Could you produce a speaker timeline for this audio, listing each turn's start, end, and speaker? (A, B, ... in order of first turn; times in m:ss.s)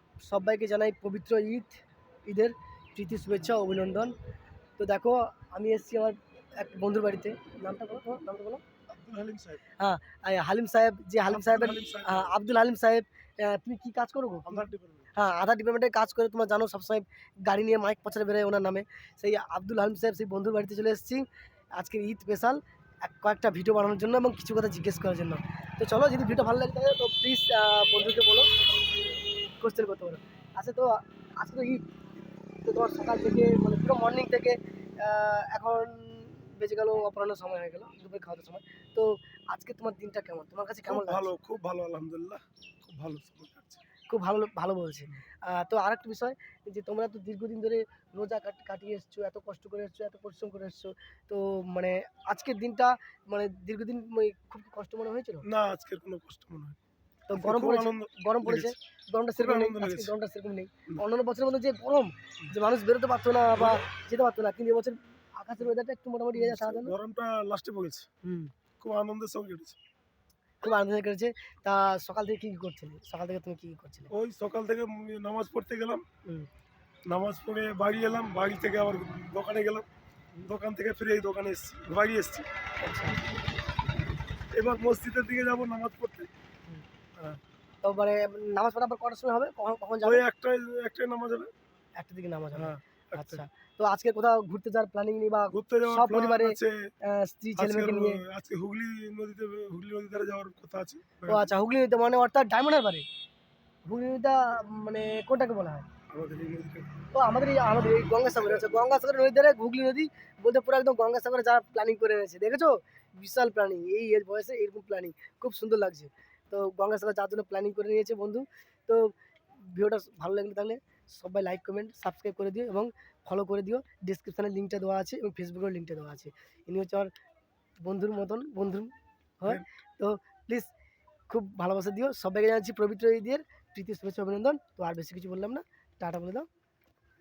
0:00.2-0:04.1 A
0:04.8-0:08.6 A
0:08.9-0:09.6 B
0:09.8-0:21.2 A
0:11.3-0:12.3 B
0:14.5-0:15.1 B
0:21.8-0:28.5 A
0:29.6-0:31.9 A
0:32.6-0:41.3 A
0:40.9-0:43.8 B
0:44.1-0:55.5 A
0:55.5-0:56.8 B
0:57.3-1:07.0 A
0:57.3-0:58.8 B
0:59.4-1:00.1 B
1:06.4-1:08.2 B
1:08.2-1:08.5 A
1:08.8-1:09.8 B
1:10.6-1:14.1 A
1:14.1-1:16.0 B
1:17.1-1:19.9 B
1:20.4-1:22.5 B
1:22.8-1:23.2 A
1:24.5-1:26.3 B
1:26.7-1:30.2 A
1:30.0-1:31.5 B
1:32.0-1:38.2 A
1:32.6-1:33.4 B
1:35.5-1:36.9 B
1:37.6-1:41.5 B
1:41.3-1:43.1 A
1:43.9-1:45.9 A
1:46.1-1:47.0 B
1:47.1-2:07.1 A
2:07.8-2:10.7 A
2:11.3-2:16.5 A